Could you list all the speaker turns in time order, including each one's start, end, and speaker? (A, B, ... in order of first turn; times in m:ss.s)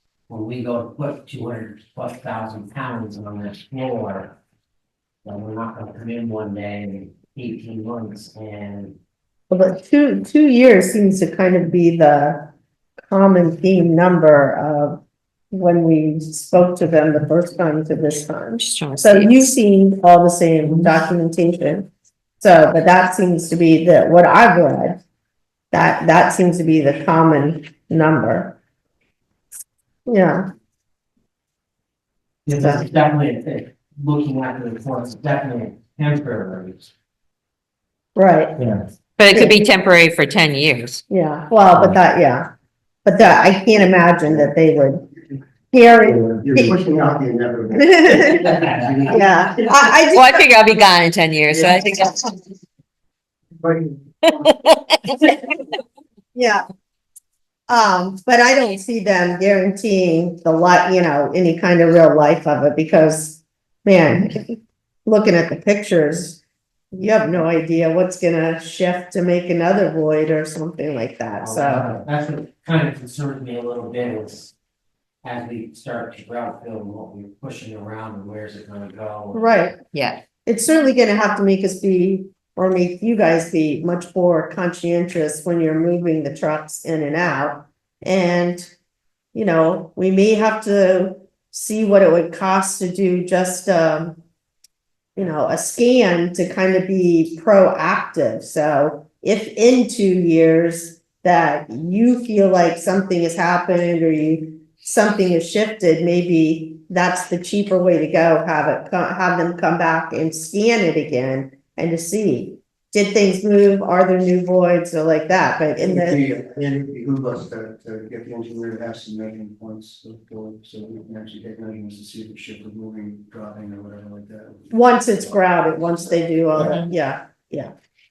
0:00.3-0:04.3 A
0:05.2-0:09.0 A
0:09.5-0:25.0 B
0:18.6-0:19.5 C
0:25.7-0:28.6 B
0:30.0-0:30.5 B
0:32.4-0:36.9 A
0:32.5-0:32.8 B
0:38.1-0:38.6 B
0:39.2-0:41.0 C
0:41.1-0:42.5 B
0:43.0-0:45.0 B
0:45.7-0:46.8 B
0:46.1-0:49.6 D
0:47.7-0:50.5 B
0:50.1-0:52.3 C
0:53.6-0:54.0 D
0:54.3-0:55.5 C
0:56.3-0:56.6 B
0:57.7-1:06.4 B
1:06.9-1:12.0 B
1:11.4-1:14.5 A
1:15.2-1:19.5 A
1:19.3-1:19.8 B
1:19.9-1:20.2 C
1:20.4-1:28.7 B
1:29.3-1:34.2 B
1:35.2-1:56.2 B
1:55.8-2:05.3 D
2:04.7-2:07.7 B